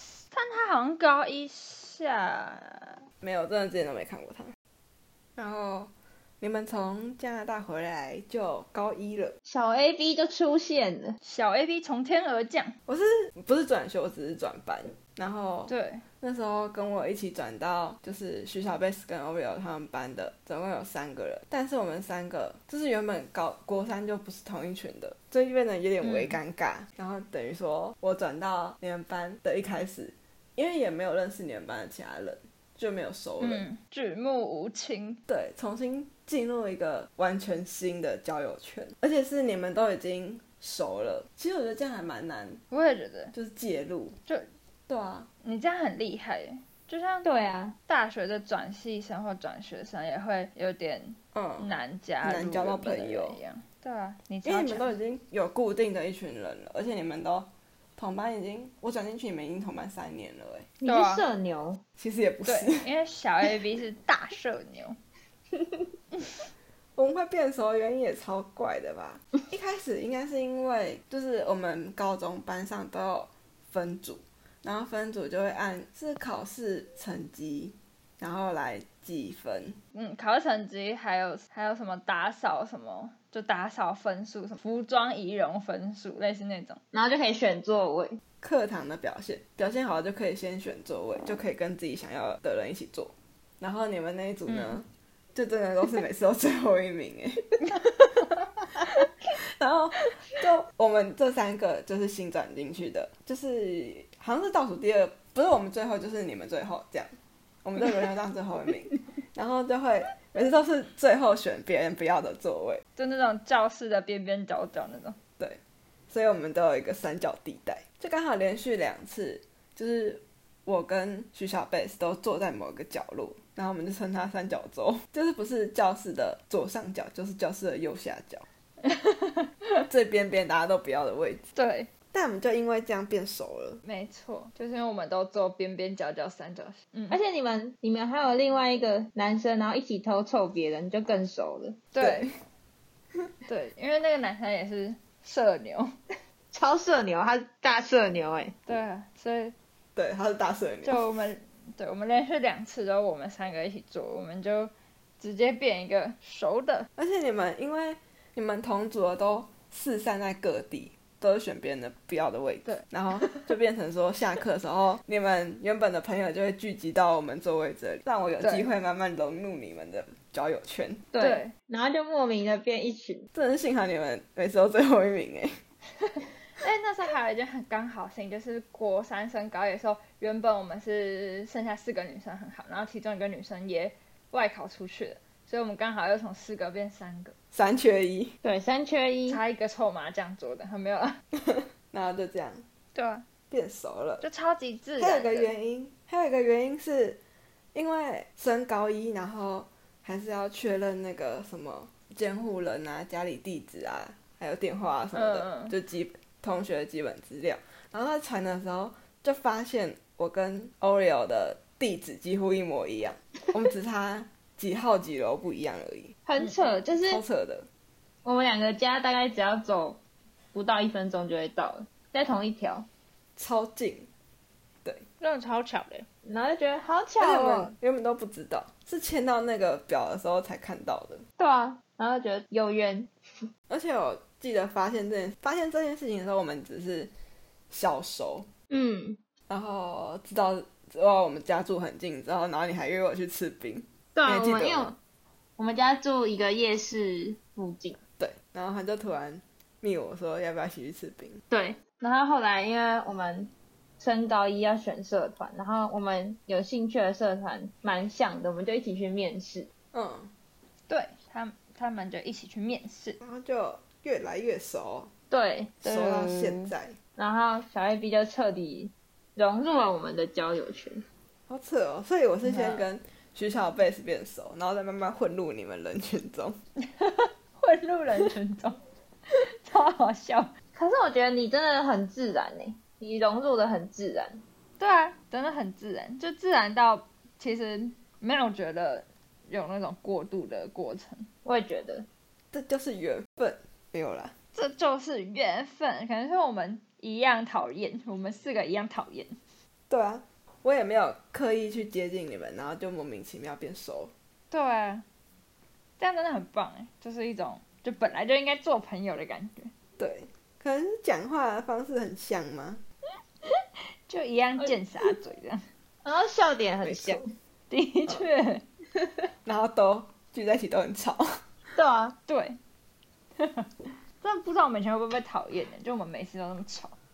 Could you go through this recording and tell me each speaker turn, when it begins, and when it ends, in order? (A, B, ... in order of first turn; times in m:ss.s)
0:00.2-0:03.0 A
0:03.2-0:04.5 B
0:05.4-0:09.4 B
0:09.5-0:11.2 C
0:11.2-0:12.7 A
0:12.9-0:33.6 B
0:15.7-0:16.0 A
0:26.0-0:26.4 A
0:33.4-0:35.2 A
0:35.3-0:42.6 B
0:42.7-0:43.3 A
0:43.3-0:44.2 B
0:44.9-0:45.3 B
0:45.4-0:47.3 A
0:47.2-0:47.8 C
0:47.9-0:54.9 A
0:51.3-0:51.7 B
0:52.2-0:53.4 B
0:54.4-1:00.7 B
1:00.8-1:01.8 C
1:00.8-1:01.2 A
1:02.0-1:02.9 B
1:02.4-1:05.0 A
1:07.0-1:19.8 B
1:19.9-1:26.8 A
1:26.9-1:28.2 C
1:28.4-1:37.6 B
1:34.5-1:34.8 A
1:39.4-1:47.1 B
1:47.6-1:52.8 B
1:53.0-1:55.2 A
1:55.4-2:08.4 B
2:08.8-2:09.8 A
2:09.9-2:11.5 B
2:11.5-2:11.9 A
2:12.1-2:13.8 B
2:13.8-2:17.2 A
2:17.1-2:21.8 C
2:21.9-2:22.3 A
2:22.0-2:22.4 B
2:23.5-2:25.9 A
2:26.5-2:28.6 C
2:28.7-2:29.5 A
2:30.0-2:31.0 B
2:30.8-2:36.9 A
2:37.0-2:51.1 B
2:42.6-2:43.4 A
2:48.4-2:48.7 A
2:51.1-2:53.3 C
2:51.2-2:51.5 A
2:53.3-2:55.6 B
2:56.6-3:07.3 A
3:07.5-3:08.3 B
3:08.4-3:09.4 C
3:09.3-3:11.2 A
3:11.4-3:12.6 B
3:12.9-3:13.2 A
3:13.5-3:14.2 B
3:14.2-3:15.5 A
3:15.0-3:17.2 B
3:17.7-3:36.2 B
3:25.1-3:25.7 A
3:36.3-3:37.2 C
3:36.9-3:37.7 B
3:38.2-3:40.0 C
3:40.5-3:42.9 C
3:43.4-3:44.1 B
3:45.2-3:46.0 A
3:46.2-3:47.7 C
3:47.2-3:51.2 B
3:51.4-3:53.1 C
3:53.7-3:57.1 B
3:57.7-3:58.5 B
3:58.7-3:59.2 C
3:59.5-4:04.9 B
4:04.2-4:05.0 C
4:05.6-4:08.0 C
4:08.2-4:11.4 B
4:11.5-4:19.7 C
4:19.9-4:20.3 B
4:20.9-4:23.2 A
4:23.2-4:25.1 B
4:25.3-4:31.0 C
4:25.8-4:26.9 B
4:31.5-4:36.6 B
4:32.4-4:32.8 A
4:36.9-4:38.8 A
4:39.3-4:40.5 A
4:40.7-4:44.4 C
4:44.8-4:51.3 A
4:51.4-4:52.1 C
4:52.5-4:54.3 B
4:54.5-4:59.4 A
4:59.9-5:04.1 B
5:04.5-5:05.0 A
5:06.0-5:09.7 A
5:10.0-5:12.8 B
5:13.4-5:15.6 A
5:16.0-5:17.3 C
5:16.8-5:17.2 B
5:17.7-5:18.6 A
5:19.4-5:21.2 B
5:21.7-5:22.2 C
5:22.3-5:22.6 A
5:23.4-5:23.7 A
5:24.2-5:26.9 A